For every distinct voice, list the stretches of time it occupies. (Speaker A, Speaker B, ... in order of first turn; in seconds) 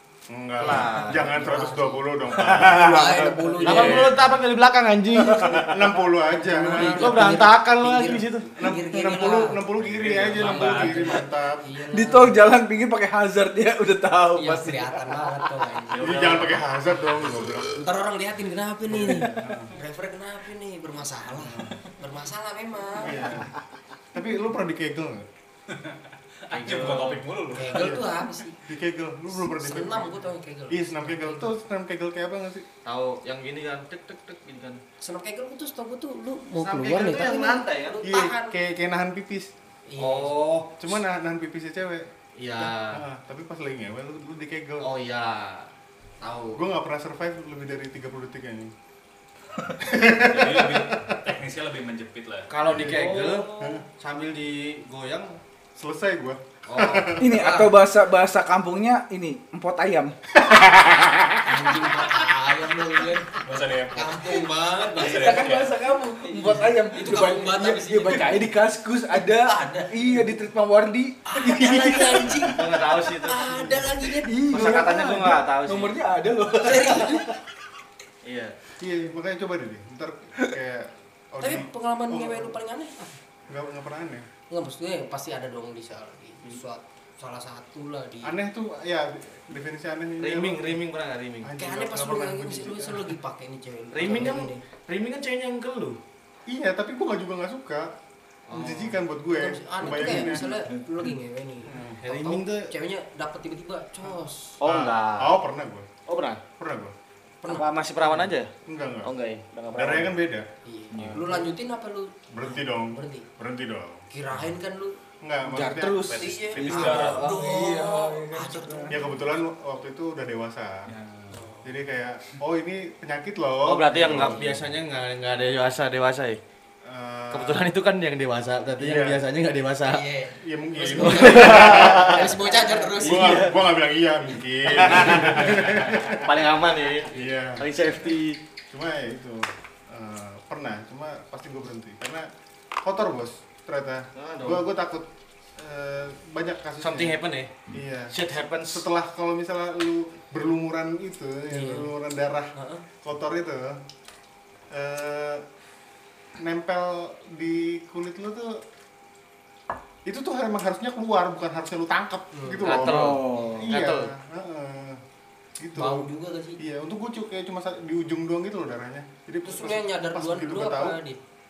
Speaker A: 0.3-4.2, 5.4-7.4, 8.6-11.6, 15.9-17.9, 18.9-19.8, 21.4-21.8, 23.0-23.6, 24.1-25.3, 27.7-32.6, 38.0-39.5, 40.8-42.1, 42.6-44.9, 46.5-48.7, 49.7-51.1, 52.6-53.8, 55.8-57.3, 78.8-82.5, 83.5-84.3, 88.2-90.8, 91.4-93.1, 94.1-94.3, 96.5-97.9, 98.5-100.5, 101.7-102.0, 104.6-105.9, 106.6-106.9, 108.7-109.1, 109.7-110.5, 111.0-111.2, 112.3-114.0, 115.2-116.1, 118.9-120.9, 121.6-124.7, 126.8-127.7, 128.8-129.2, 130.4-132.3, 132.9-136.3, 137.1-137.7, 138.7-142.3, 142.8-147.2, 147.7-148.1, 148.7-153.8, 154.7-155.4, 156.4-158.6, 160.1-165.0, 165.6-171.0
Speaker B: 0.6-1.3, 3.6-5.8, 6.7-8.6, 15.9-16.6, 26.5-27.2, 32.9-34.8, 36.6-38.0, 40.0-41.0, 42.4-43.0, 44.8-45.7, 46.2-46.6, 52.5-55.4, 56.6-57.2, 72.5-73.9, 74.5-76.0, 78.2-78.6, 90.2-91.5, 93.9-96.0, 98.5-99.0, 102.0-102.7, 104.6-105.4, 106.1-106.4, 107.5-108.5, 109.0-110.2, 123.6-126.4, 127.3-130.1, 131.0-133.7, 134.6-138.4, 144.1-144.7, 146.8-147.5, 148.1-148.9, 162.6-164.1
Speaker C: 0.6-4.2, 6.4-9.6, 10.3-12.4, 14.4-16.0, 17.7-23.4, 27.5-28.6, 29.3-31.5, 35.0-38.5, 39.9-40.4, 52.9-53.7, 57.2-57.8, 61.4-68.5, 69.2-70.2, 71.3-74.8, 76.6-77.3, 81.4-83.1, 84.5-88.4, 91.6-94.6, 99.3-104.6, 107.4-107.7, 110.6-113.3, 114.1-115.0, 116.1-119.1, 121.3-121.7, 129.8-133.4, 151.5-151.9, 152.6-152.8, 162.3-163.7, 165.8-166.6, 169.4-171.2
Speaker D: 2.6-3.9, 5.2-5.6, 11.9-15.7, 57.2-61.6, 65.0-72.6, 74.1-77.4, 100.1-100.8, 110.9-111.4, 115.4-119.1, 120.9-121.3, 162.8-163.7
Speaker E: 9.8-11.2, 25.7-27.9, 50.2-52.5, 63.3-65.8, 116.1-117.4